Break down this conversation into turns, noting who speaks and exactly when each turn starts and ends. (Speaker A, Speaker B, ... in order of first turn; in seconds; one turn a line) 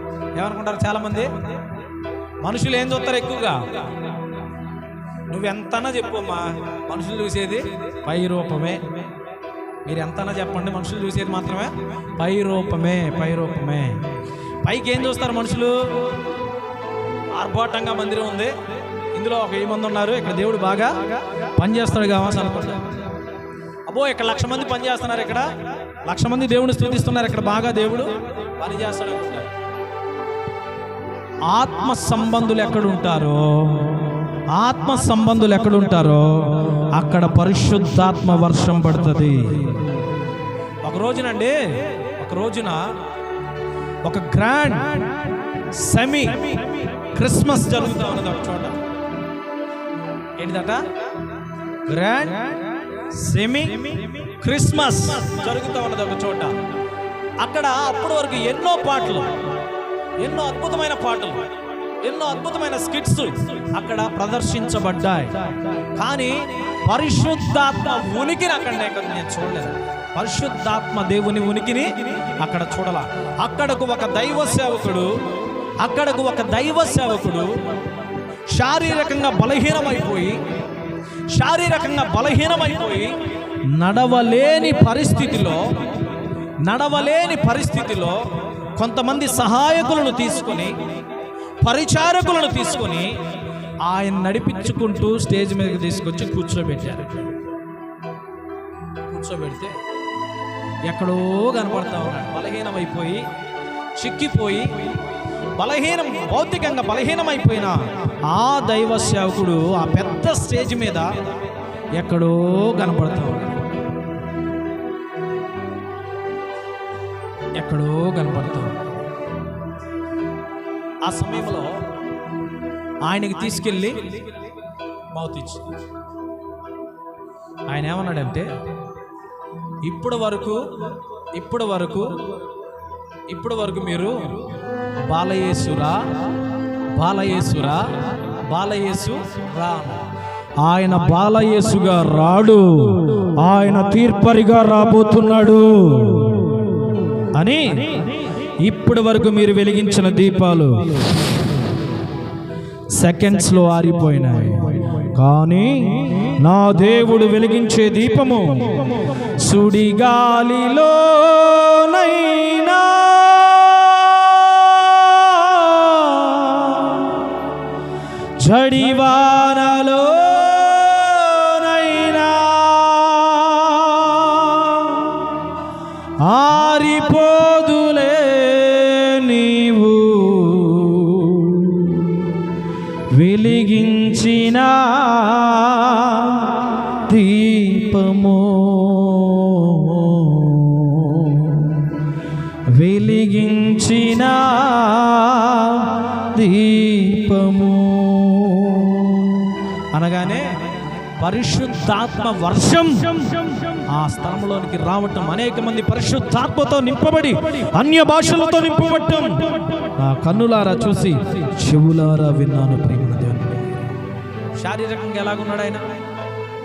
Speaker A: 0.4-1.6
Speaker A: 2.4-4.1
Speaker A: 5.3-9.1
Speaker A: 9.8-14.1
Speaker A: 14.6-16.1
Speaker A: 17.3-22.9
Speaker A: 23.9-29.5
Speaker A: 31.4-39.9
Speaker A: 40.8-43.0
Speaker A: 44.0-48.7
Speaker A: 50.4-50.9
Speaker A: 51.9-56.6
Speaker A: 57.4-59.4
Speaker A: 60.2-61.5
Speaker A: 62.0-75.2
Speaker A: 75.8-77.6
Speaker A: 78.5-80.5
Speaker A: 81.3-85.9
Speaker A: 86.6-90.8
Speaker A: 91.6-93.2
Speaker A: 93.8-97.2
Speaker A: 99.0-99.8
Speaker A: 100.8-103.2
Speaker A: 104.0-104.9
Speaker A: 105.6-111.3
Speaker A: 112.0-113.6
Speaker A: 117.6-118.7
Speaker A: 121.0-121.8
Speaker A: 123.0-124.4
Speaker A: 125.1-125.7
Speaker A: 127.7-128.5
Speaker A: 129.8-130.8
Speaker A: 131.3-132.3
Speaker A: 133.3-134.5
Speaker A: 135.0-136.1
Speaker A: 136.9-140.0
Speaker A: 140.6-146.6
Speaker A: 147.3-151.1
Speaker A: 152.9-167.3
Speaker A: 168.4-175.5
Speaker A: 176.2-182.4
Speaker A: 183.1-192.0
Speaker A: 192.7-200.5
Speaker A: 201.2-213.7
Speaker A: 214.6-216.0